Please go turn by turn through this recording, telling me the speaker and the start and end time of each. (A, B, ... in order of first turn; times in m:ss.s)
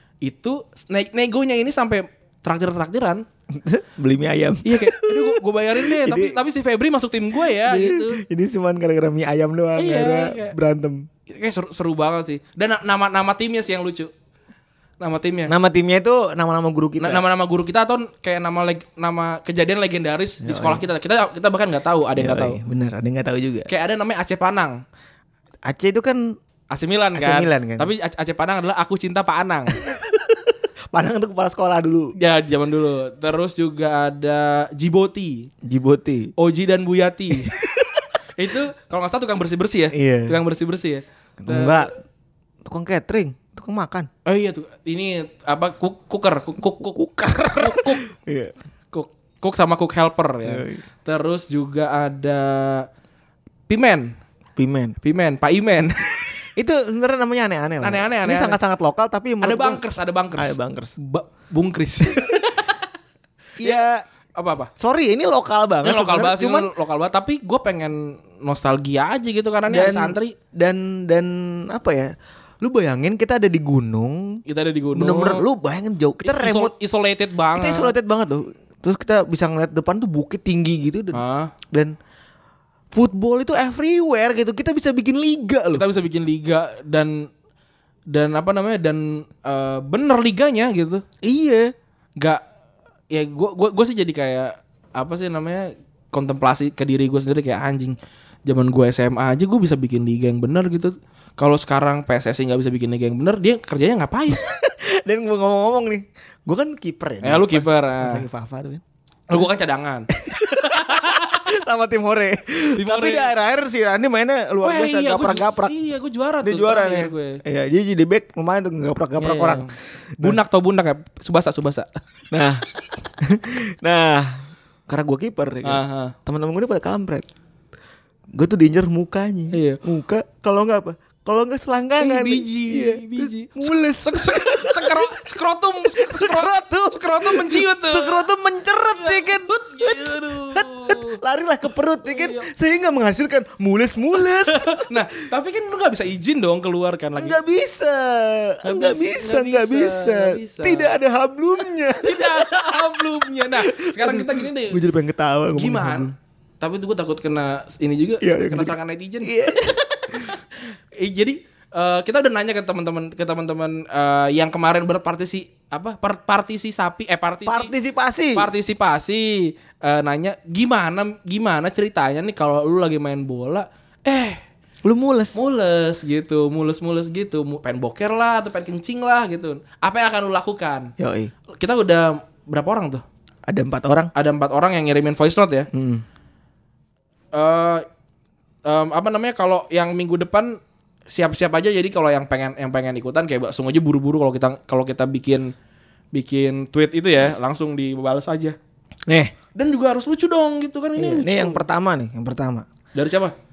0:00.2-0:03.2 A
0:03.5-0:06.4 B
0:04.6-0:08.2 A
0:07.6-0:11.1 B
0:09.8-0:10.6 A
0:11.3-0:14.1 A
0:15.0-0:15.5 A
0:15.5-0:17.2 B
0:17.0-0:22.6 A
0:20.4-0:20.8 B
0:22.2-0:23.7 B
0:23.7-0:24.8 A
0:25.6-0:26.4 B
0:26.7-0:29.8 A
0:27.1-0:27.9 B
0:29.8-0:32.1 B
0:32.2-0:35.5 A
0:35.6-0:36.3 B
0:36.4-0:37.6 A
0:37.4-0:38.0 B
0:38.4-0:41.9 A
0:39.9-0:40.4 B
0:41.4-0:41.9 B
0:42.6-0:44.1 B
0:44.3-0:48.0 A
0:46.8-0:48.5 B
0:48.9-0:52.9 A
0:50.4-0:50.8 B
0:53.7-0:54.1 A
0:54.6-0:55.0 B
0:55.0-0:56.3 A
0:56.6-0:59.8 B
0:57.8-0:58.6 A
0:59.4-1:02.8 A
1:00.4-1:00.9 B
1:03.6-1:04.0 B
1:04.3-1:04.7 A
1:04.8-1:06.7 B
1:05.8-1:10.3 A
1:09.7-1:14.4 B
1:14.5-1:15.4 A
1:14.9-1:16.7 B
1:16.2-1:17.9 A
1:17.6-1:21.2 B
1:21.1-1:21.5 A
1:22.9-1:25.8 B
1:25.7-1:27.3 A
1:28.1-1:31.0 A
1:31.2-1:31.7 B
1:33.1-1:44.4 A
1:44.3-1:48.8 B
1:47.2-1:48.2 A
1:49.3-1:51.4 A
1:50.2-1:55.7 B
1:52.8-1:53.3 A
1:54.6-1:57.4 A
1:56.4-2:00.4 B
1:59.2-2:01.9 A
2:02.3-2:02.6 B
2:03.2-2:07.3 B
2:05.6-2:06.1 A
2:08.3-2:15.2 B
2:09.5-2:09.8 A
2:12.0-2:18.3 A
2:15.9-2:25.0 B
2:18.9-2:21.2 A
2:22.0-2:22.5 A
2:24.4-2:27.4 A
2:27.2-2:32.9 B
2:28.6-2:31.0 A
2:32.0-2:34.8 A
2:33.6-2:36.1 B
2:35.6-2:39.3 A
2:38.2-2:40.3 B
2:41.0-2:47.7 A
2:47.4-2:48.5 B
2:48.3-2:54.4 A
2:54.8-2:55.4 B
2:55.3-3:00.9 A
3:01.0-3:01.3 B
3:01.5-3:03.0 A
3:03.5-3:04.1 B
3:04.1-3:05.7 A
3:05.7-3:06.0 B
3:07.3-3:07.8 A
3:08.6-3:15.5 A
3:16.1-3:18.6 A
3:19.1-3:19.3 B
3:19.6-3:21.6 A
3:21.0-3:22.6 B
3:22.9-3:23.3 A